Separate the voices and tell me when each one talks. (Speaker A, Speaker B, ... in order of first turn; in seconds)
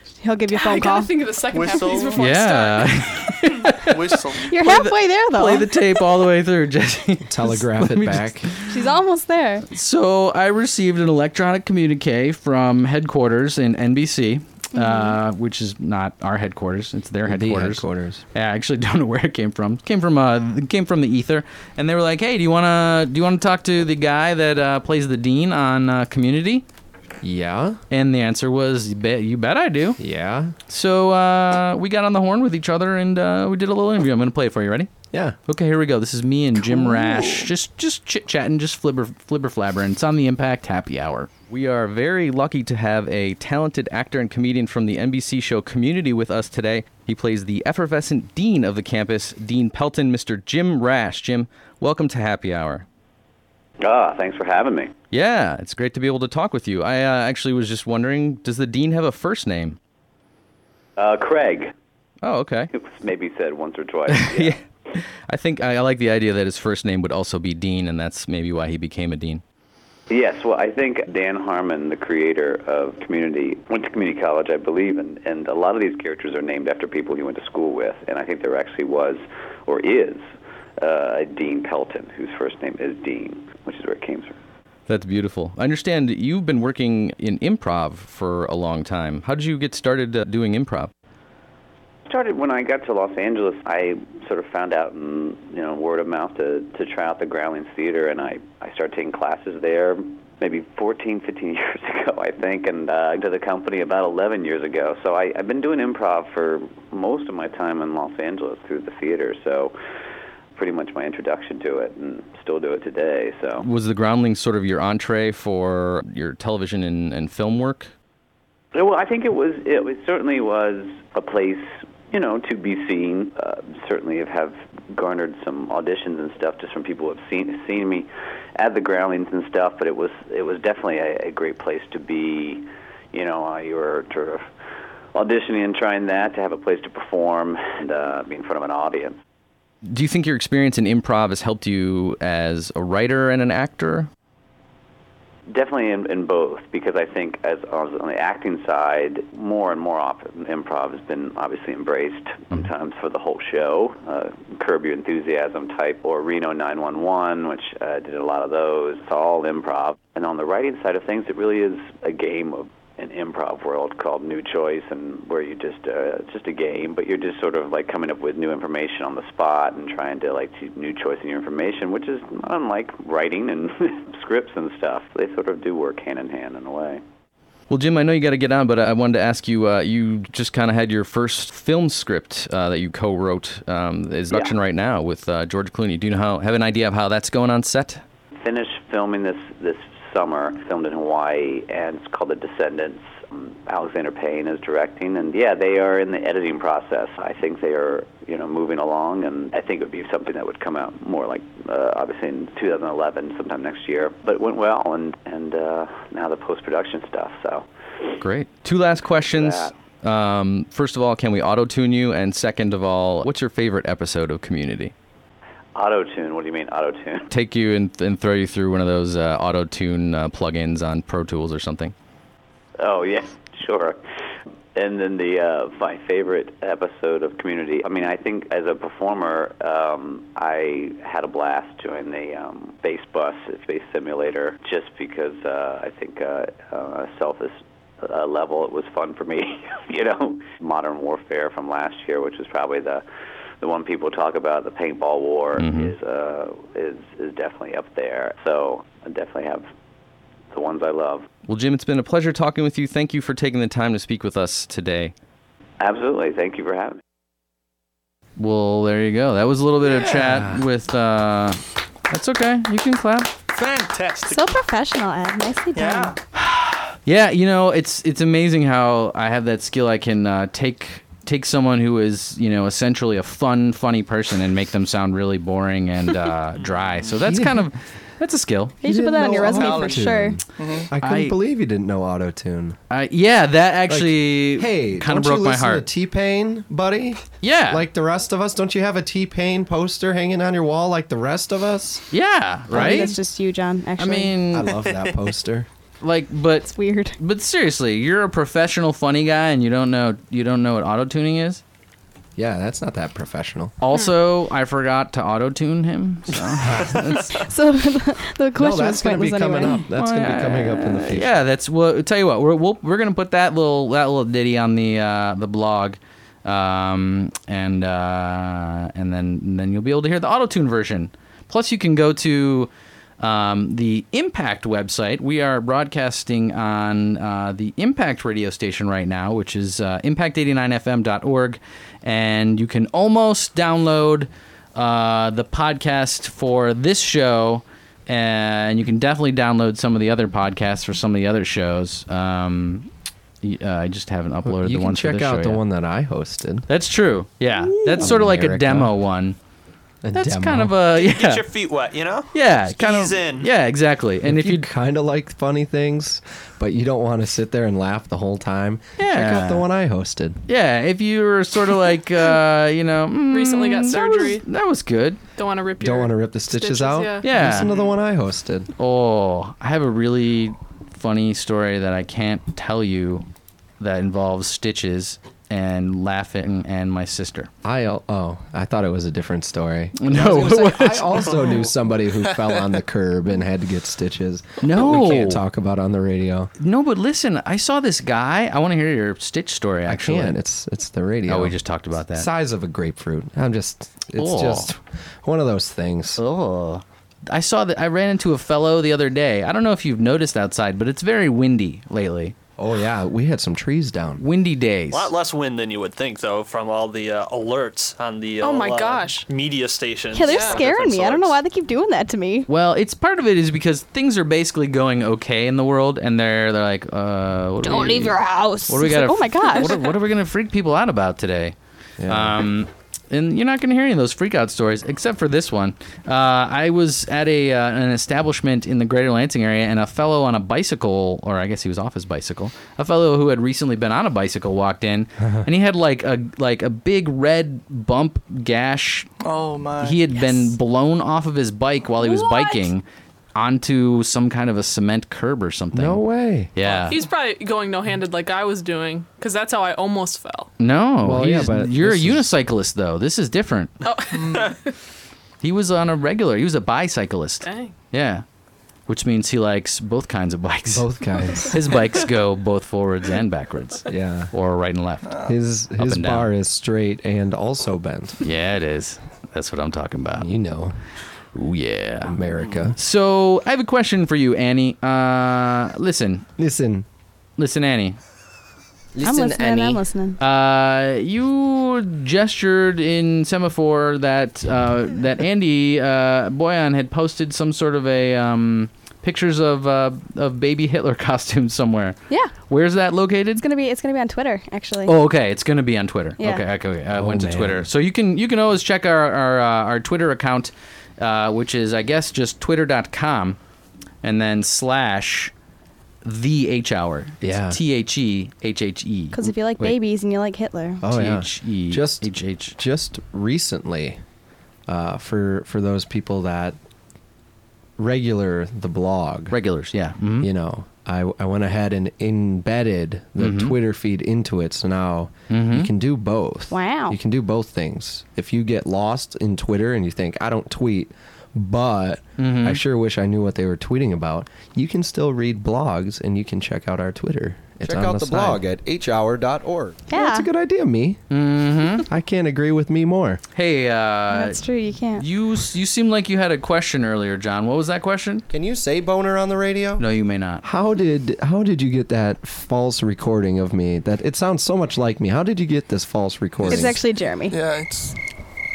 Speaker A: 0.2-1.2, 4.4-6.1, 8.7-9.7, 14.8-15.2, 264.3-266.2, 278.8-280.4, 292.7-294.4, 296.7-297.1, 307.3-309.8, 410.1-412.5, 417.6-419.9, 479.0-480.2, 493.4-495.0, 496.2-496.5, 509.1-510.8, 526.5-527.0, 539.9-540.3, 544.1-545.0, 556.5-557.4
Speaker B: 0.5-3.2, 363.3-364.4, 365.4-367.3, 408.4-409.3, 410.2-410.7, 442.0-442.7, 446.6-450.5, 453.8-454.7, 457.4-457.7
Speaker C: 1.5-2.3, 3.9-4.5, 263.5-264.5, 265.8-266.1, 279.4-280.9, 439.2-440.0, 454.1-454.5, 557.3-558.0
Speaker D: 2.2-8.7, 9.7-26.6, 27.9-30.0, 30.7-34.9, 35.5-52.9, 55.1-59.8, 62.2-62.7, 64.1-69.4, 84.9-90.9, 113.6-117.9, 139.8-144.1, 177.7-188.0, 208.2-214.9, 217.3-221.9, 245.6-245.9, 251.5-255.1, 258.4-263.3, 266.4-278.8, 281.0-281.4, 282.9-285.9, 287.4-287.9, 292.1-293.1, 294.0-294.7, 296.0-301.6, 303.8-307.4, 309.9-342.9, 343.4-345.6, 346.7-349.4, 350.1-351.5, 352.3-354.7, 359.0-359.7, 360.5-365.2, 367.2-367.7, 368.8-373.3, 373.8-377.5, 380.0-381.4, 384.6-385.4, 386.6-390.4, 391.3-392.3, 394.1-394.7, 396.2-402.4, 404.2-405.1, 412.5-421.6, 422.1-439.1, 439.8-442.8, 443.4-447.0, 450.6-453.7, 455.4-458.2, 458.9-460.9, 461.5-465.2, 465.8-466.3, 468.2-470.3, 471.4-472.2, 472.7-476.3, 477.4-478.0, 480.2-493.4, 494.9-503.4, 504.0-505.3, 506.0-509.7, 510.9-512.6, 519.3-520.3, 523.2-523.5, 525.3-525.7, 532.2-532.6, 541.1-541.9, 543.4-544.4, 544.9-548.2, 549.8-550.4
Speaker E: 7.3-8.5, 17.2-18.2, 27.2-27.8, 30.0-30.5, 260.2-260.6, 277.1-277.7, 278.8-282.8, 283.9-292.1, 292.7-293.1, 294.5-295.7, 302.4-303.8, 308.6-311.3, 344.4-346.7, 347.6-348.9, 350.0-350.8, 354.2-360.4, 365.8-368.7, 377.6-386.5, 389.9-391.6, 392.1-396.2, 402.6-404.2, 422.0-422.5, 445.7-446.5, 451.0-452.3, 460.7-461.6, 463.9-464.3, 465.2-468.2, 470.2-470.8, 472.1-472.8, 476.4-476.9, 496.9-497.7, 507.2-507.6, 510.8-514.0, 514.7-516.6, 517.8-519.4, 520.2-538.8, 539.7-541.0, 541.9-543.2, 548.3-549.8, 550.4-556.8
Speaker F: 53.8-54.9, 61.0-61.7, 62.7-64.6, 70.1-80.2, 80.8-84.4, 92.1-109.7, 110.6-113.7, 118.7-134.4, 135.1-139.2, 145.5-177.0, 188.4-207.7, 209.2-209.7, 215.8-217.3, 222.8-224.0, 224.8-243.0, 243.6-249.7, 250.5-251.3, 255.8-257.0
Speaker G: 294.7-295.2, 350.9-353.5, 404.9-411.4
Speaker H: 479.0-479.7, 537.6-539.7